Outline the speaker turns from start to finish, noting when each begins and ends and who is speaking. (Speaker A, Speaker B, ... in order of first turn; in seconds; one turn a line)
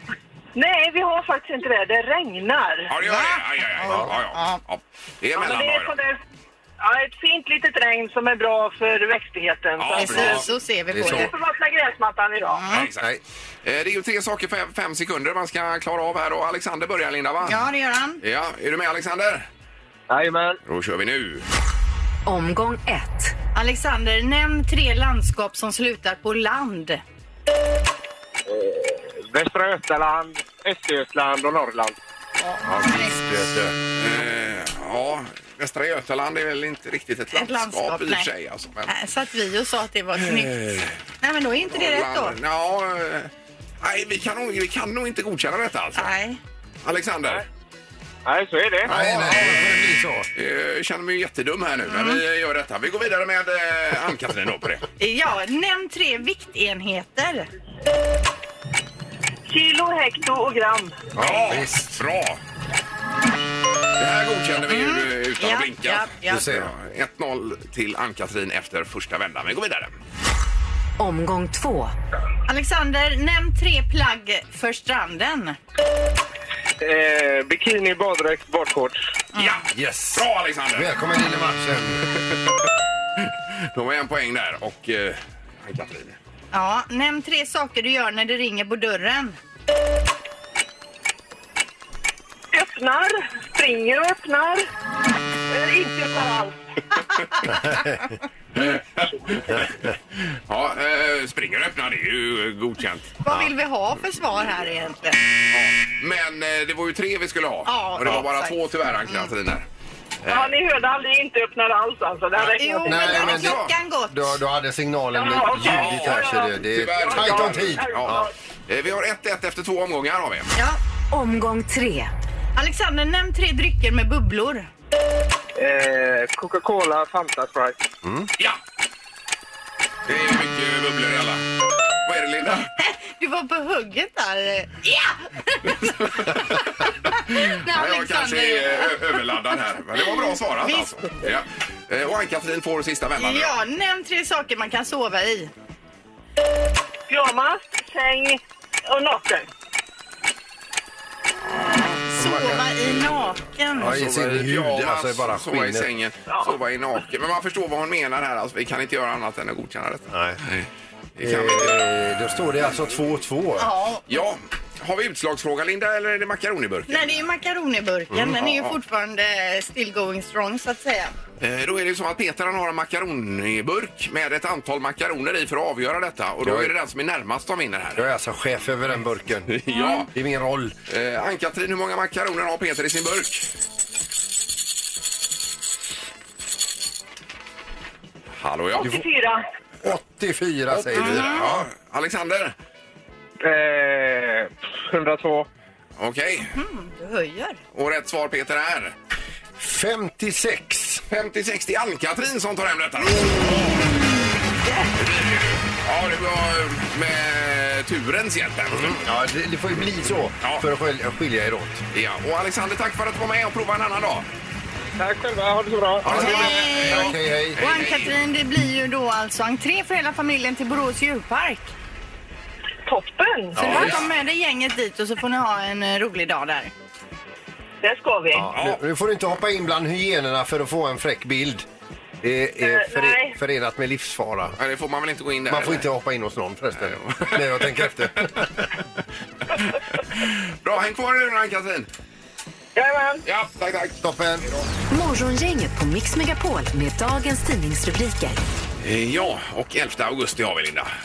Speaker A: 0.6-2.9
Speaker B: 2.9-5.9
Speaker C: 3.0-4.6
Speaker A: 5.4-6.2
Speaker A: 6.8-10.4
Speaker B: 9.8-10.4
Speaker C: 10.0-11.3
Speaker D: 10.9-11.3
Speaker A: 11.1-12.6
Speaker C: 12.5-12.9
Speaker B: 12.7-13.1
Speaker D: 12.8-13.2
Speaker B: 13.6-17.7
Speaker C: 17.4-18.2
Speaker B: 18.2-19.5
Speaker E: 20.1-20.6
Speaker B: 20.7-21.4
Speaker F: 22.3-23.4
Speaker C: 23.6-27.0
Speaker E: 28.5-32.0
Speaker C: 32.4-33.2
Speaker D: 32.6-33.8
Speaker B: 34.0-38.9
Speaker C: 37.3-38.3
Speaker C: 38.9-42.4
Speaker B: 40.2-40.9
Speaker B: 41.7-46.1
Speaker C: 46.0-46.4
Speaker B: 46.8-47.4
Speaker E: 48.2-48.9
Speaker B: 48.8-54.9
Speaker D: 48.9-50.3
Speaker C: 51.9-52.2
Speaker C: 55.0-57.5
Speaker A: 59.5-61.0
Speaker D: 61.2-62.0
Speaker B: 61.2-62.4
Speaker B: 64.0-69.9
Speaker C: 64.6-66.4
Speaker D: 66.3-66.7
Speaker F: 71.0-72.0
Speaker C: 72.5-75.6
Speaker E: 76.8-79.0
Speaker B: 79.3-81.0
Speaker D: 79.7-82.0
Speaker B: 82.1-82.6
Speaker B: 83.2-86.2
Speaker C: 86.5-89.4
Speaker A: 92.5-94.7
Speaker A: 95.5-96.6
Speaker B: 98.5-103.5
Speaker C: 103.2-105.2
Speaker B: 105.5-109.7
Speaker C: 107.7-108.6
Speaker B: 110.2-110.5
Speaker A: 110.3-113.3
Speaker B: 112.3-113.7
Speaker C: 112.6-114.3
Speaker D: 112.9-118.3
Speaker A: 115.1-118.3
Speaker B: 115.6-120.5
Speaker F: 121.1-122.1
Speaker C: 122.6-124.7
Speaker E: 125.6-127.8
Speaker D: 128.0-128.3
Speaker B: 130.1-131.4
Speaker B: 132.0-132.7
Speaker C: 132.8-136.6
Speaker B: 135.8-136.6
Speaker C: 137.2-139.0
Speaker B: 137.3-143.5
Speaker C: 140.6-141.1
Speaker C: 143.2-145.5
Speaker A: 147.1-149.5
Speaker B: 151.5-152.0
Speaker C: 152.1-154.0
Speaker D: 152.2-152.6
Speaker D: 153.8-155.9
Speaker B: 153.8-161.9
Speaker A: 156.3-156.6
Speaker D: 160.1-160.4
Speaker D: 161.2-163.7
Speaker C: 163.6-164.1
Speaker B: 164.1-167.2
Speaker C: 166.9-171.1
Speaker D: 168.1-168.4
Speaker B: 171.4-178.1
Speaker D: 176.4-176.7
Speaker D: 178.0-179.6
Speaker B: 179.5-180.1
Speaker D: 180.1-180.7
Speaker B: 180.9-183.5
Speaker B: 188.4-189.0
Speaker A: 188.8-189.4
Speaker D: 189.8-191.7
Speaker B: 190.7-192.6
Speaker E: 193.4-195.5
Speaker B: 196.0-196.5
Speaker C: 196.5-197.6
Speaker B: 197.7-198.9
Speaker D: 199.6-201.0
Speaker B: 201.1-204.0
Speaker B: 205.0-209.0
Speaker D: 208.7-211.8
Speaker B: 211.9-214.3
Speaker E: 215.0-216.4
Speaker D: 216.0-217.6
Speaker C: 216.1-221.7
Speaker B: 216.3-218.2
Speaker A: 222.9-224.0
Speaker D: 223.6-224.0
Speaker C: 223.6-226.7
Speaker B: 223.6-224.1
Speaker A: 227.8-228.5
Speaker D: 228.3-231.7
Speaker B: 228.5-228.8
Speaker D: 232.2-234.6
Speaker A: 232.6-233.4
Speaker B: 234.6-235.9
Speaker D: 235.5-238.7
Speaker B: 236.8-238.3
Speaker B: 240.2-241.9
Speaker A: 242.8-243.2
Speaker B: 243.2-244.7
Speaker D: 244.0-244.4
Speaker F: 244.9-248.4
Speaker B: 248.8-250.9